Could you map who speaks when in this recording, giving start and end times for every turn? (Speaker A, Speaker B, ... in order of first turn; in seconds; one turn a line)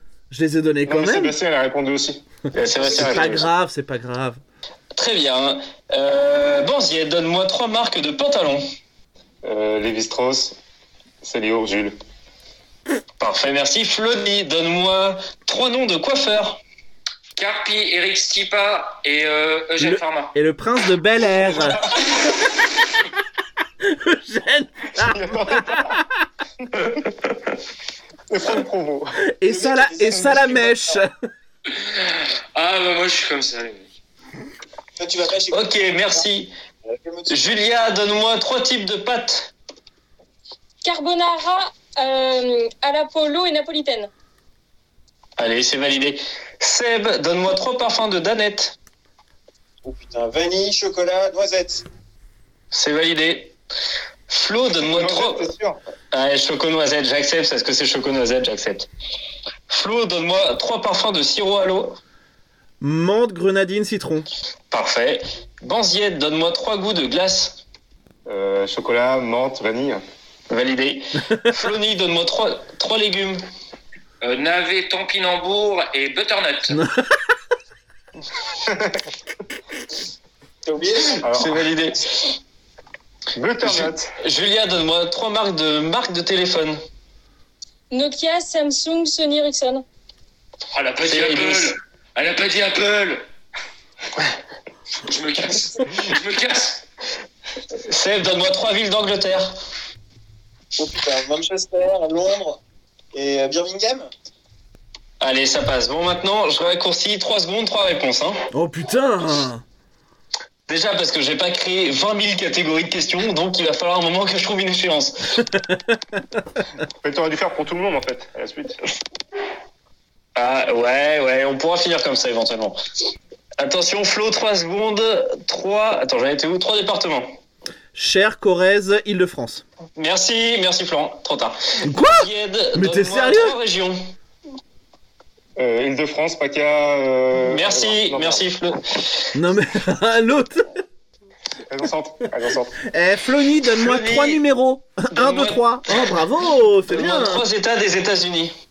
Speaker A: 0.3-1.4
Speaker B: 0.9-2.2
Speaker C: 2.5-3.5
Speaker D: 2.7-3.4
Speaker A: 2.8-4.4
Speaker C: 5.0-8.6
Speaker B: 9.4-10.6
Speaker B: 11.2-11.9
Speaker C: 13.2-16.6
Speaker E: 17.4-20.4
Speaker A: 19.8-22.2
Speaker A: 23.8-26.1
Speaker B: 25.0-26.0
Speaker C: 26.8-27.5
Speaker B: 28.3-29.2
Speaker A: 29.4-31.1
Speaker D: 29.5-31.0
Speaker E: 31.7-33.9
Speaker D: 35.0-36.3
Speaker C: 35.5-36.5
Speaker D: 36.9-37.8
Speaker C: 37.3-39.5
Speaker F: 40.8-44.1
Speaker C: 45.4-48.8
Speaker D: 49.8-51.9
Speaker C: 52.7-53.5
Speaker C: 54.3-55.5
Speaker B: 54.8-55.8
Speaker C: 56.1-58.9
Speaker C: 59.7-62.0
Speaker A: 62.8-64.3
Speaker C: 64.7-67.6
Speaker B: 68.3-70.0
Speaker C: 70.5-73.4
Speaker E: 74.2-76.8
Speaker A: 76.7-77.0
Speaker B: 78.7-79.0
Speaker D: 80.7-81.2
Speaker B: 81.2-81.7
Speaker C: 81.3-82.4
Speaker B: 83.3-84.1
Speaker C: 83.6-86.8
Speaker F: 87.9-89.8
Speaker E: 90.7-93.2
Speaker C: 91.0-91.8
Speaker E: 95.0-96.8
Speaker C: 97.8-99.5
Speaker D: 100.8-102.6
Speaker D: 103.1-104.1
Speaker C: 105.2-108.4
Speaker A: 108.5-109.6
Speaker C: 110.7-115.1
Speaker B: 117.0-118.8
Speaker C: 120.4-122.8
Speaker C: 123.6-127.4
Speaker A: 128.0-129.6
Speaker C: 130.0-134.0
Speaker A: 131.8-133.6
Speaker B: 135.6-138.5
Speaker C: 137.4-139.3
Speaker A: 139.3-140.8
Speaker B: 141.7-142.8
Speaker A: 142.9-147.4
Speaker C: 143.8-144.4
Speaker C: 145.1-146.1
Speaker C: 146.9-148.5